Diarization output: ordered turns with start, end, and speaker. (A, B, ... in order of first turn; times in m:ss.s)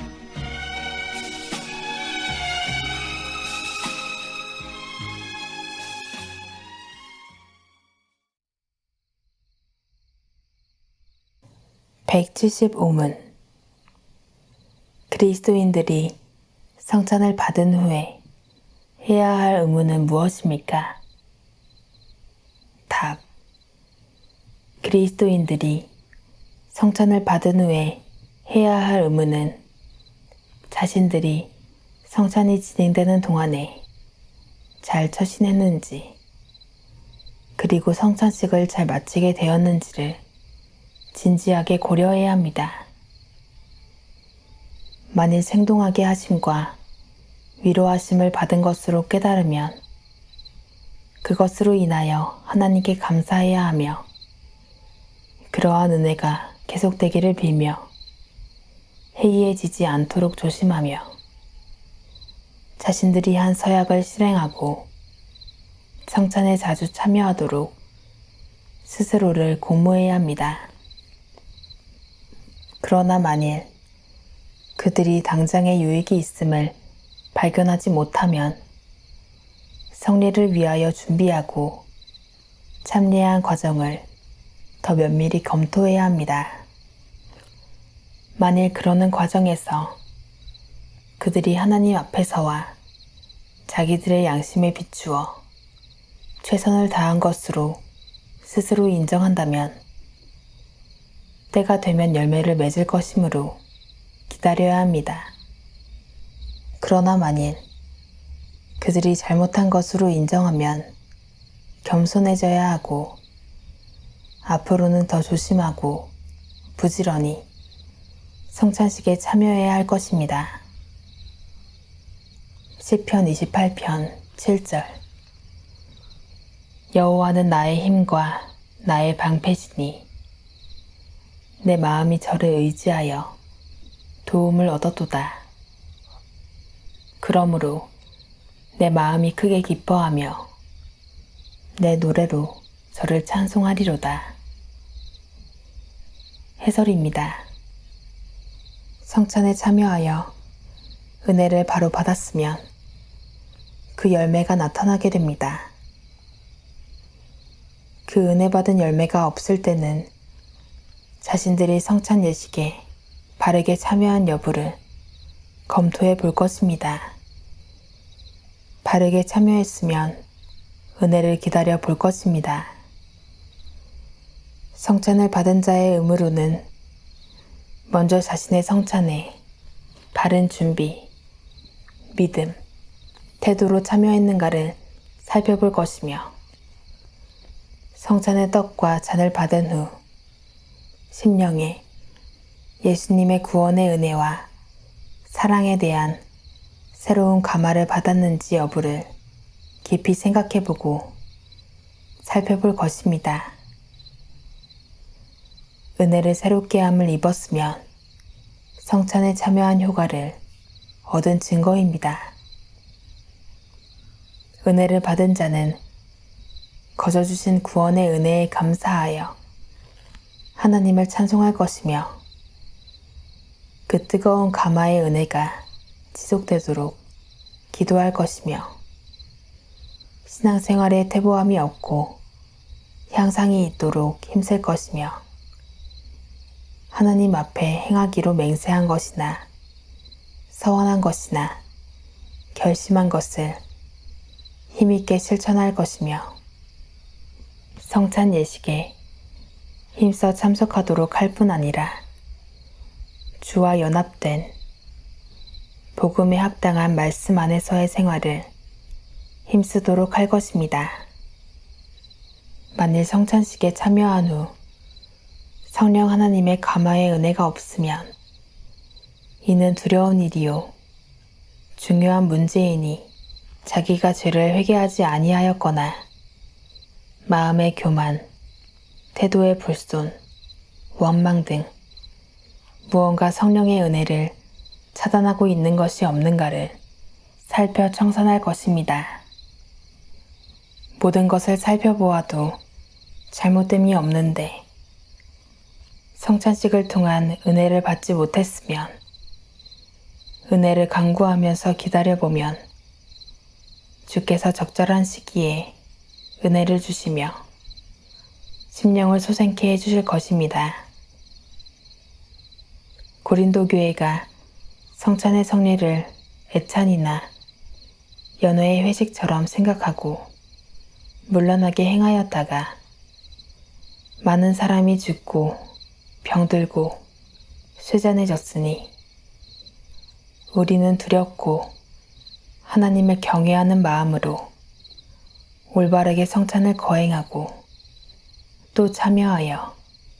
0:12.0-0:13.3 A
0:15.1-0:16.2 A
0:16.8-0:18.2 A
0:19.0-0:21.0 A
0:22.9-0:23.2 A
0:24.8-0:25.9 A
0:26.7-0:29.6 A
0:30.7-0:31.5 A
0:32.0-0:33.8 A
0:34.8-0:36.2 A
0:37.6-0:40.2 A
0:41.1-0:42.9 A
0:45.1-0:46.8 A
0:47.6-0:49.8 A
0:51.2-0:54.0 A
0:55.5-0:57.9 A
0:59.2-1:01.2 A
1:02.8-1:04.9 A
1:06.0-1:07.8 A
1:08.8-1:10.7 A
1:12.8-1:13.7 A
1:14.8-1:16.8 A
1:17.3-1:18.6 A
1:19.9-1:21.8 A
1:22.8-1:24.0 A
1:24.8-1:26.6 A
1:28.4-1:30.0 A
1:31.2-1:32.8 A
1:33.7-1:35.4 A
1:36.4-1:37.8 A
1:38.4-1:39.8 A
1:41.5-1:43.6 A
1:44.3-1:45.3 A
1:46.8-1:47.6 A
1:48.8-1:50.9 A
1:51.8-1:53.2 A
1:54.4-1:56.1 A
1:56.8-1:57.4 A
1:58.5-2:00.6 A
2:02.8-2:05.0 A
2:06.9-2:10.1 A
2:11.6-2:13.4 A
2:14.2-2:15.4 A
2:17.2-2:17.9 A
2:18.8-2:20.5 A
2:21.8-2:24.4 A
2:26.6-2:27.5 A
2:29.0-2:30.3 A
2:31.2-2:32.6 A
2:33.9-2:35.7 A
2:38.0-2:40.1 A
2:41.2-2:42.8 A
2:43.4-2:44.8 A
2:45.7-2:47.2 A
2:48.8-2:50.2 A
2:51.0-2:52.8 A
2:54.7-2:56.7 A
2:57.9-2:59.4 A
3:00.1-3:01.1 A
3:02.1-3:02.6 A
3:03.4-3:06.3 A
3:07.9-3:10.0 A
3:11.1-3:11.8 A
3:12.8-3:14.5 A
3:15.3-3:16.2 A
3:16.9-3:19.1 A
3:19.8-3:21.1 A
3:22.2-3:23.6 A
3:26.0-3:27.8 A
3:28.8-3:30.4 A
3:31.0-3:32.3 A
3:34.6-3:35.8 A
3:37.0-3:39.4 A
3:40.6-3:42.2 A
3:43.9-3:47.0 A
3:47.7-3:48.8 A
3:50.2-3:52.2 A
3:53.1-3:55.2 A
3:56.9-3:59.5 A
4:00.5-4:01.6 A
4:02.5-4:03.6 A
4:04.7-4:06.4 A
4:07.8-4:09.0 A
4:10.0-4:12.0 A
4:13.4-4:14.5 A
4:15.9-4:18.5 A
4:19.5-4:21.0 A
4:22.7-4:24.5 A
4:25.7-4:28.1 A
4:29.4-4:30.7 A
4:31.8-4:33.1 A
4:33.6-4:36.0 A
4:37.2-4:38.3 A
4:39.1-4:40.2 A
4:41.0-4:41.7 A
4:42.9-4:44.4 A
4:44.9-4:46.8 A
4:47.4-4:49.2 A
4:51.0-4:52.6 A
4:53.3-4:54.6 A
4:56.2-4:58.9 A
5:00.5-5:02.6 A
5:04.0-5:05.8 A
5:06.4-5:07.4 A
5:08.7-5:10.8 A
5:13.2-5:14.3 A
5:15.0-5:17.3 A
5:18.4-5:20.3 A
5:21.3-5:22.8 A
5:24.2-5:25.6 A
5:26.2-5:27.0 A
5:27.8-5:28.9 A
5:30.5-5:31.7 A
5:32.6-5:34.5 A
5:35.7-5:37.6 A
5:38.7-5:39.8 A